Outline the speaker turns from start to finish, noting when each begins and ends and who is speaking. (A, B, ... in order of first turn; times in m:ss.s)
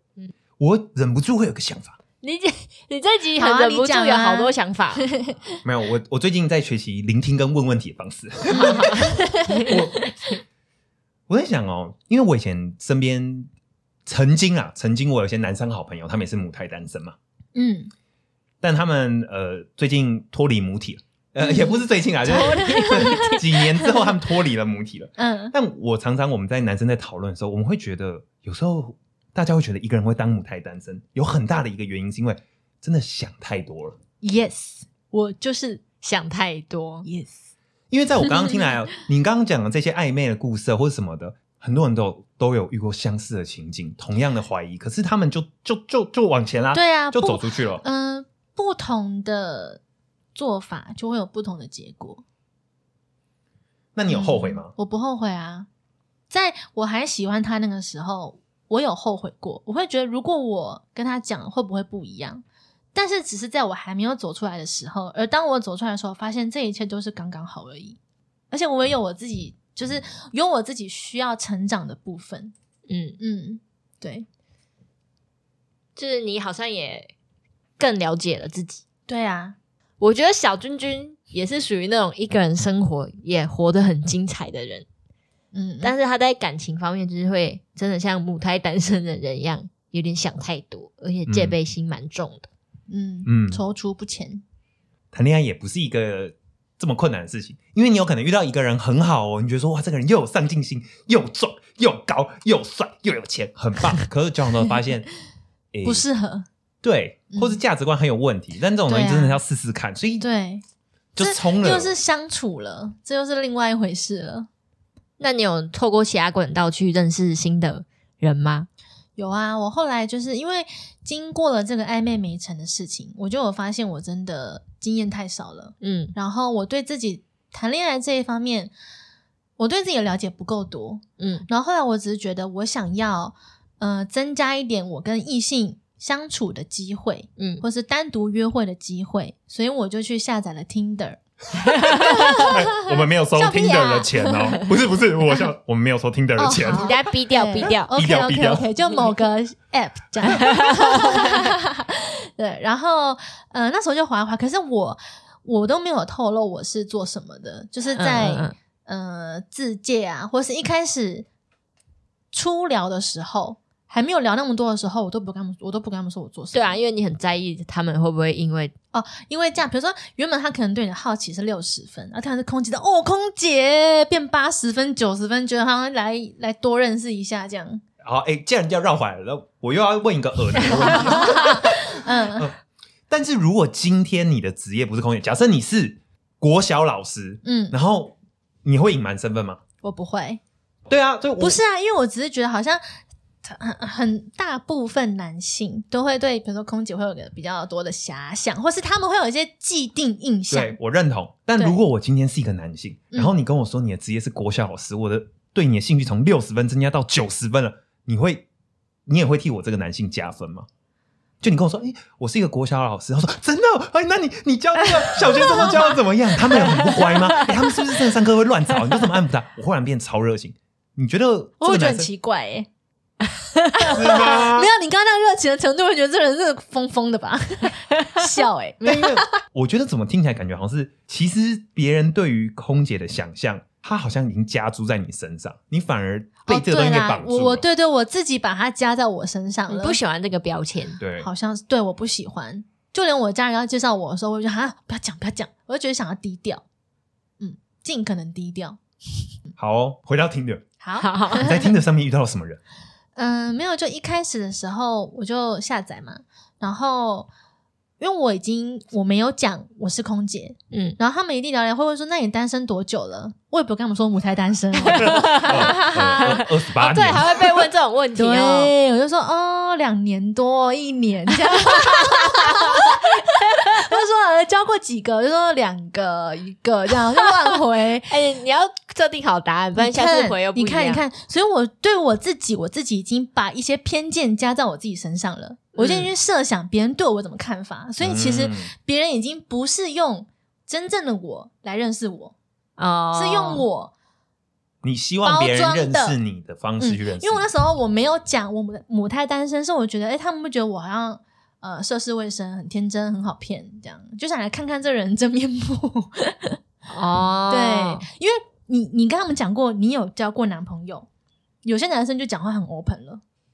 0:00.6-0:02.0 A
0:02.2-0:05.1 B
0:03.4-0:05.4 C
0:05.6-0:10.0 A
0:08.5-0:09.8 B
0:08.6-0:09.7 C
0:11.3-0:13.5 A
0:14.0-0:17.2 A
0:17.5-0:17.9 C
0:18.6-0:34.0 A
0:21.4-0:21.7 C
0:22.2-0:23.9 C
0:22.3-0:23.7 B
0:25.2-0:25.5 C
0:34.2-0:35.8 C
0:36.0-0:37.0 B
0:37.0-0:37.4 C
0:37.9-0:47.8 A
0:38.2-0:38.7 C
0:46.7-0:49.8 C
0:50.3-0:52.2 C
0:53.9-0:54.7 A
0:54.1-0:55.7 C
0:56.3-1:02.4 C
1:02.9-1:08.0 C
1:08.5-1:12.5 C
1:12.9-1:13.2 B
1:13.2-1:14.2 C
1:16.0-1:17.1 B
1:17.8-1:18.8 B
1:19.1-1:19.6 C
1:20.0-1:24.8 B
1:25.5-1:25.9 C
1:25.8-1:32.5 B
1:31.3-1:31.6 A
1:32.9-1:34.4 C
1:33.2-1:33.6 A
1:35.1-1:45.1 A
1:45.7-1:46.0 A
1:45.8-1:46.5 C
1:46.8-1:50.2 A
1:47.3-1:47.6 C
1:48.9-1:49.4 C
1:50.2-1:50.6 C
1:51.1-1:51.9 A
1:51.2-1:54.5 C
1:55.2-1:58.7 B
1:59.2-2:08.7 C
2:05.8-2:06.1 B
2:09.6-2:24.7 C
2:11.2-2:11.5 B
2:17.4-2:17.6 B
2:21.9-2:27.0 A
2:26.4-2:41.3 C
2:26.7-2:27.9 B
2:27.6-2:28.7 A
2:30.4-2:31.4 B
2:38.0-2:38.5 B
2:42.3-2:46.8 C
2:46.5-2:48.7 B
2:48.9-2:57.8 C
2:58.0-3:02.6 A
3:00.7-3:02.5 C
3:03.1-3:09.6 A
3:07.4-3:07.7 C
3:09.8-3:10.4 C
3:10.9-3:11.6 A
3:11.4-3:12.8 C
3:13.4-3:20.8 C
3:20.5-3:28.5 A
3:29.0-3:30.7 A
3:31.4-3:42.1 A
3:34.8-3:36.0 C
3:36.5-3:37.0 C
3:41.6-3:42.7 C
3:43.7-3:49.3 C
3:43.9-3:44.7 A
3:48.8-3:57.6 A
3:56.4-4:00.0 C
3:59.7-4:01.0 B
4:01.0-4:01.3 A
4:01.2-4:06.6 C
4:07.4-4:08.8 C
4:09.6-4:10.6 A
4:10.8-4:11.7 C
4:11.0-4:11.5 B
4:11.3-4:12.6 A
4:13.2-4:17.3 C
4:18.0-4:26.4 C
4:20.7-4:21.0 B
4:24.8-4:28.7 B
4:24.9-4:27.7 A
4:28.2-4:38.1 C
4:31.6-4:33.0 B
4:38.1-4:41.0 B
4:39.7-4:52.3 C
4:45.8-4:46.1 B
4:48.0-4:48.7 A
4:52.8-4:53.6 B
4:53.1-4:53.9 C
4:54.8-4:57.4 A
4:55.2-4:56.2 C
4:56.8-5:06.6 C
5:06.9-5:08.0 B
5:07.5-5:11.1 C
5:11.6-5:13.2 C